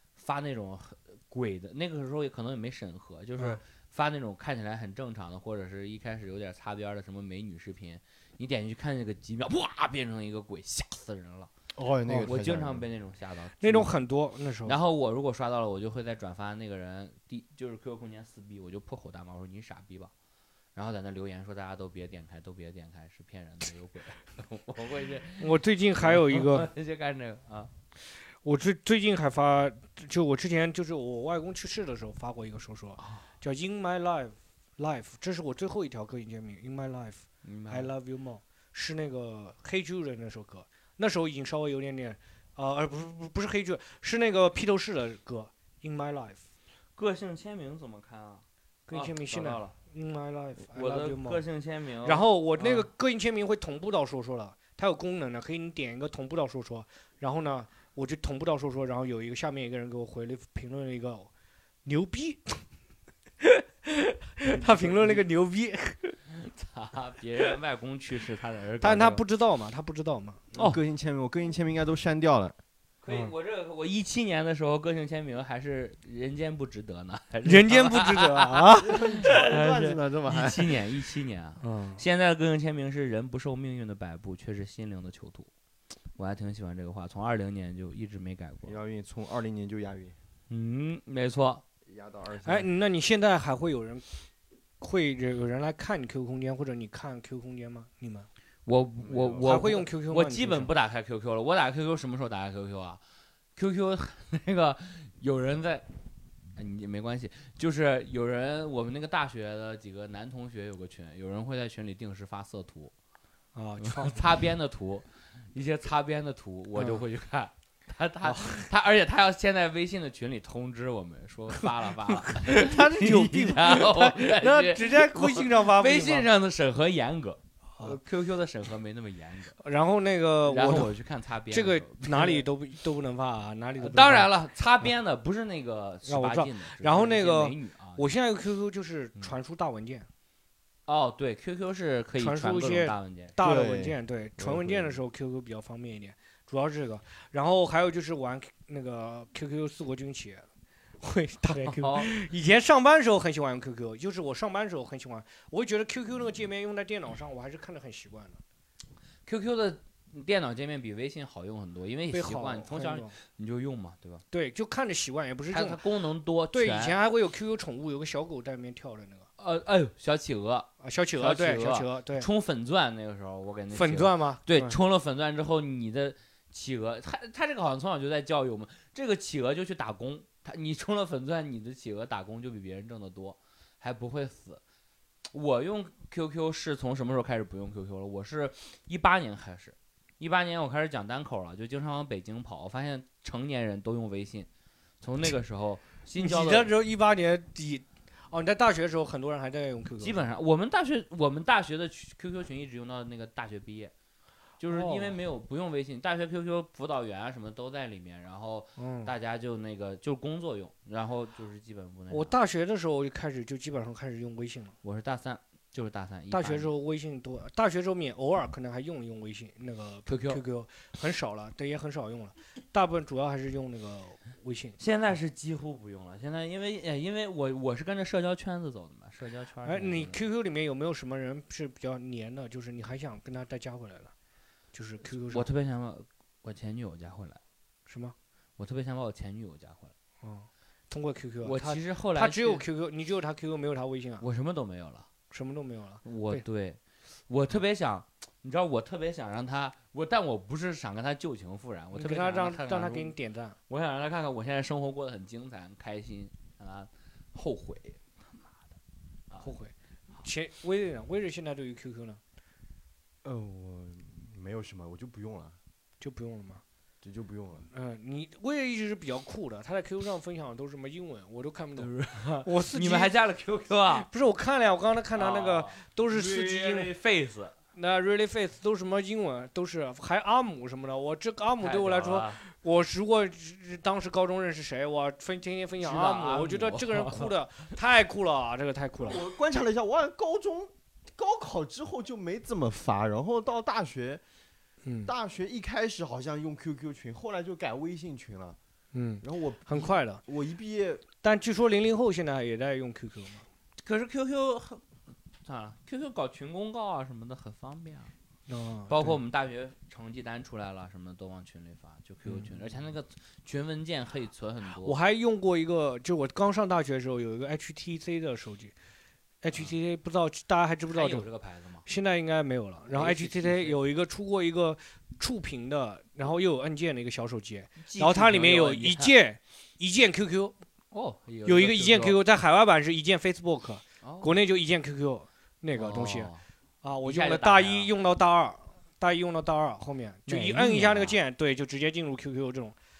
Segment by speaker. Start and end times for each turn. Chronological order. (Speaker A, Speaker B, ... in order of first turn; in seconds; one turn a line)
Speaker A: 0.2-11.5
Speaker B: 11.8-12.9
Speaker A: 12.2-13.9
Speaker C: 13.6-14.8
Speaker A: 14.6-20.1
Speaker A: 20.8-27.7
Speaker C: 25.4-26.7
Speaker C: 28.4-46.4
Speaker A: 33.0-33.2
Speaker A: 37.4-37.9
Speaker A: 47.0-49.8
Speaker C: 48.9-51.4
Speaker A: 50.6-52.9
Speaker C: 52.0-61.3
Speaker C: 61.9-62.6
Speaker C: 63.4-66.2
Speaker A: 64.7-65.2
Speaker A: 66.3-69.2
Speaker C: 68.8-70.5
Speaker A: 70.5-70.8
Speaker B: 70.6-72.6
Speaker A: 73.0-85.5
Speaker C: 77.5-79.0
Speaker B: 78.8-80.8
Speaker C: 81.6-82.0
Speaker A: 86.2-88.8
Speaker B: 88.6-90.2
Speaker A: 90.5-91.6
Speaker B: 91.8-92.7
Speaker C: 92.4-94.0
Speaker C: 94.8-98.3
Speaker A: 98.7-103.0
Speaker B: 99.0-99.6
Speaker C: 99.4-100.7
Speaker A: 103.6-105.9
Speaker A: 106.6-112.9
Speaker C: 113.5-114.2
Speaker A: 113.8-129.6
Speaker C: 116.8-117.0
Speaker C: 118.2-118.7
Speaker C: 121.6-126.3
Speaker C: 129.6-130.9
Speaker A: 130.5-132.5
Speaker C: 131.5-134.3
Speaker A: 133.8-138.0
Speaker C: 136.1-140.1
Speaker A: 140.9-143.4
Speaker C: 142.2-150.5
Speaker B: 143.4-144.9
Speaker C: 151.0-158.4
Speaker A: 151.6-152.1
Speaker A: 159.3-164.2
Speaker C: 162.1-163.1
Speaker C: 164.3-165.8
Speaker A: 165.5-167.0
Speaker C: 166.5-169.3
Speaker A: 169.4-184.6
Speaker C: 170.8-172.3
Speaker C: 173.7-174.8
Speaker A: 185.3-194.5
Speaker A: 195.0-196.7
Speaker C: 196.2-200.2
Speaker A: 200.0-203.9
Speaker A: 204.6-212.3
Speaker C: 204.7-205.1
Speaker C: 208.8-209.1
Speaker C: 212.1-214.8
Speaker A: 214.8-216.7
Speaker C: 216.3-224.8
Speaker A: 220.1-220.4
Speaker A: 224.8-230.2
Speaker C: 229.6-234.1
Speaker C: 234.7-235.5
Speaker A: 235.1-237.4
Speaker C: 237.9-238.1
Speaker A: 238.6-239.9
Speaker C: 240.2-244.2
Speaker A: 241.4-242.6
Speaker A: 244.2-245.1
Speaker C: 245.3-246.4
Speaker A: 246.1-253.1
Speaker C: 251.9-253.6
Speaker A: 253.7-258.6
Speaker A: 259.3-259.6
Speaker C: 259.4-262.2
Speaker B: 263.2-265.6
Speaker C: 266.0-266.6
Speaker B: 267.0-267.7
Speaker C: 267.7-273.1
Speaker A: 271.8-274.1
Speaker C: 273.9-276.9
Speaker A: 275.1-277.6
Speaker C: 277.8-289.2
Speaker A: 281.6-282.4
Speaker A: 285.8-287.3
Speaker B: 289.0-294.2
Speaker C: 294.8-295.1
Speaker B: 295.1-298.6
Speaker C: 298.9-300.2
Speaker B: 299.2-301.1
Speaker C: 301.2-303.4
Speaker A: 303.8-304.8
Speaker A: 305.4-308.1
Speaker C: 308.5-309.2
Speaker A: 308.9-315.0
Speaker C: 312.2-312.5
Speaker C: 314.8-318.7
Speaker C: 319.4-321.3
Speaker A: 320.9-321.9
Speaker C: 321.9-330.5
Speaker A: 322.9-323.8
Speaker A: 327.8-329.1
Speaker A: 330.9-332.2
Speaker C: 331.4-336.3
Speaker A: 334.0-334.4
Speaker A: 335.8-336.4
Speaker C: 336.8-342.8
Speaker A: 337.0-337.9
Speaker A: 340.3-341.2